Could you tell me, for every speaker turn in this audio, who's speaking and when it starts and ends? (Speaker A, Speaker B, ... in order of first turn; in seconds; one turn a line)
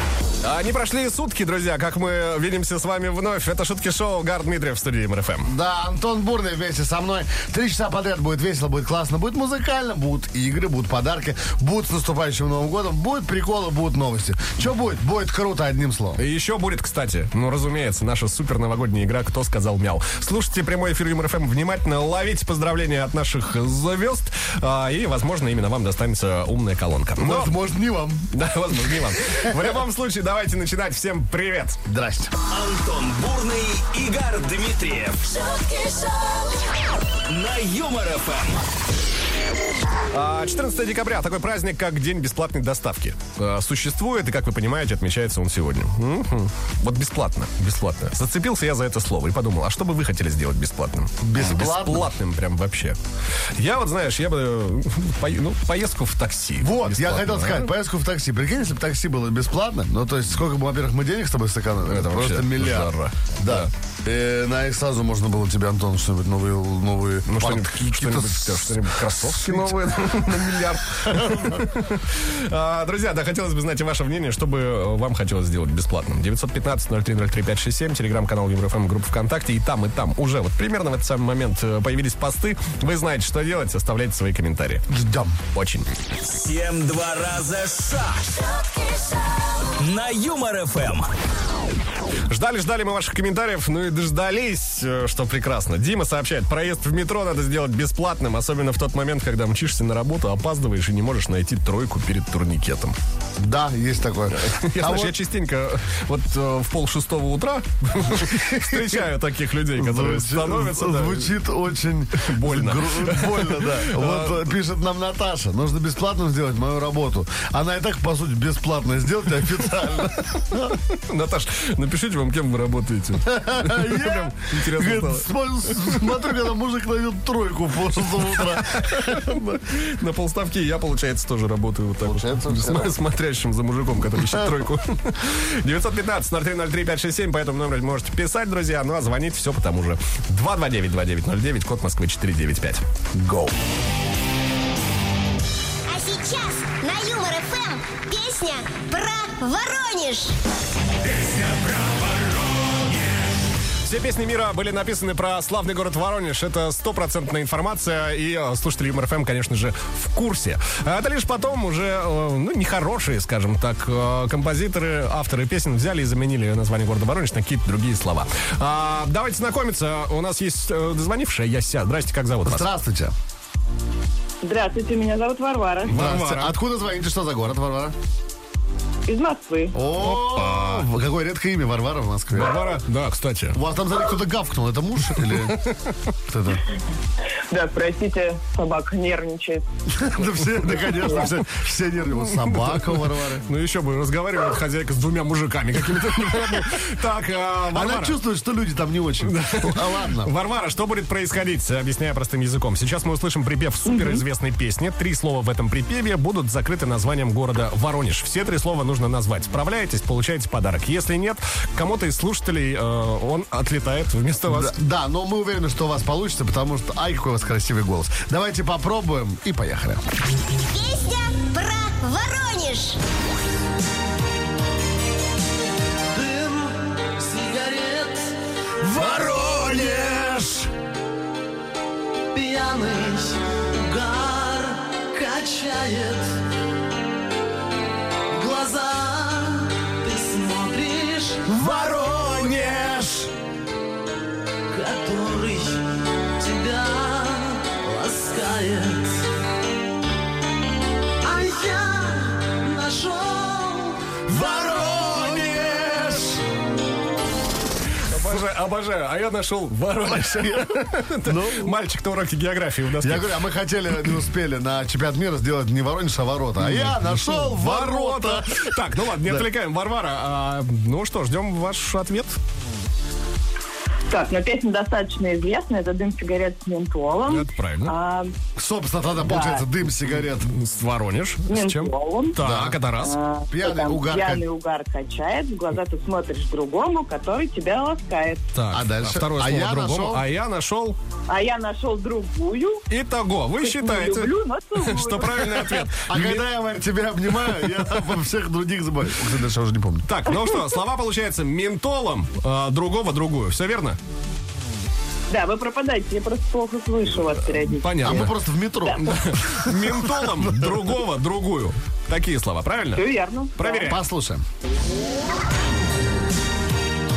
Speaker A: 0.4-5.5
Speaker B: 5.5-16.2
Speaker A: 16.2-27.5
Speaker B: 27.2-28.3
Speaker A: 28.3-31.8
Speaker B: 29.0-29.7
Speaker B: 31.9-32.3
Speaker C: 32.5-36.1
Speaker C: 37.2-38.7
Speaker A: 40.1-53.0
Speaker B: 51.2-52.1
Speaker A: 53.6-57.7
Speaker B: 56.6-71.8
Speaker A: 61.9-63.7
Speaker A: 67.3-84.9
Speaker B: 84.9-85.4
Speaker A: 85.5-85.9
Speaker C: 86.2-88.9
Speaker C: 89.8-91.1
Speaker A: 92.3-103.0
Speaker B: 103.4-105.2
Speaker A: 104.3-111.4
Speaker B: 108.1-109.1
Speaker B: 109.8-120.8
Speaker A: 112.2-114.5
Speaker A: 120.8-126.1
Speaker B: 123.2-129.6
Speaker A: 128.4-142.8
Speaker B: 132.0-133.0
Speaker B: 134.2-134.6
Speaker B: 143.1-143.5
Speaker D: 145.9-150.3
Speaker A: 153.8-172.7
Speaker B: 172.4-173.1
Speaker E: 174.4-176.0
Speaker A: 175.8-176.6
Speaker B: 175.9-177.9
Speaker E: 179.1-179.8
Speaker B: 179.7-182.6
Speaker A: 180.0-180.9
Speaker A: 182.3-183.6
Speaker B: 183.5-185.6
Speaker A: 185.2-186.0
Speaker B: 186.3-186.6
Speaker E: 187.5-189.6
Speaker B: 189.9-193.5
Speaker A: 192.5-198.2
Speaker B: 196.3-196.6
Speaker B: 197.7-200.3
Speaker A: 199.2-214.8
Speaker E: 203.8-204.2
Speaker B: 214.5-220.0
Speaker D: 220.7-223.0
Speaker F: 226.1-230.7
Speaker F: 232.3-236.4
Speaker F: 238.3-243.3
Speaker F: 244.7-249.2
Speaker F: 251.2-256.4
Speaker B: 254.3-256.3
Speaker A: 258.1-263.4
Speaker B: 260.1-261.8
Speaker B: 263.0-269.4
Speaker A: 266.6-272.4
Speaker E: 274.1-278.3
Speaker A: 277.2-277.9
Speaker B: 278.6-280.5
Speaker E: 279.2-279.6
Speaker A: 280.4-283.2
Speaker E: 281.5-282.4
Speaker B: 282.4-282.8
Speaker E: 283.0-288.4
Speaker B: 283.5-284.4
Speaker A: 288.5-291.0
Speaker B: 288.7-290.2
Speaker E: 291.3-292.8
Speaker A: 292.9-296.5
Speaker E: 293.6-295.9
Speaker B: 296.0-300.1
Speaker A: 300.1-304.0
Speaker E: 305.3-308.3
Speaker A: 307.1-308.3
Speaker B: 308.0-310.9
Speaker A: 309.0-313.1
Speaker E: 312.9-313.9
Speaker A: 313.6-314.0
Speaker B: 313.8-314.4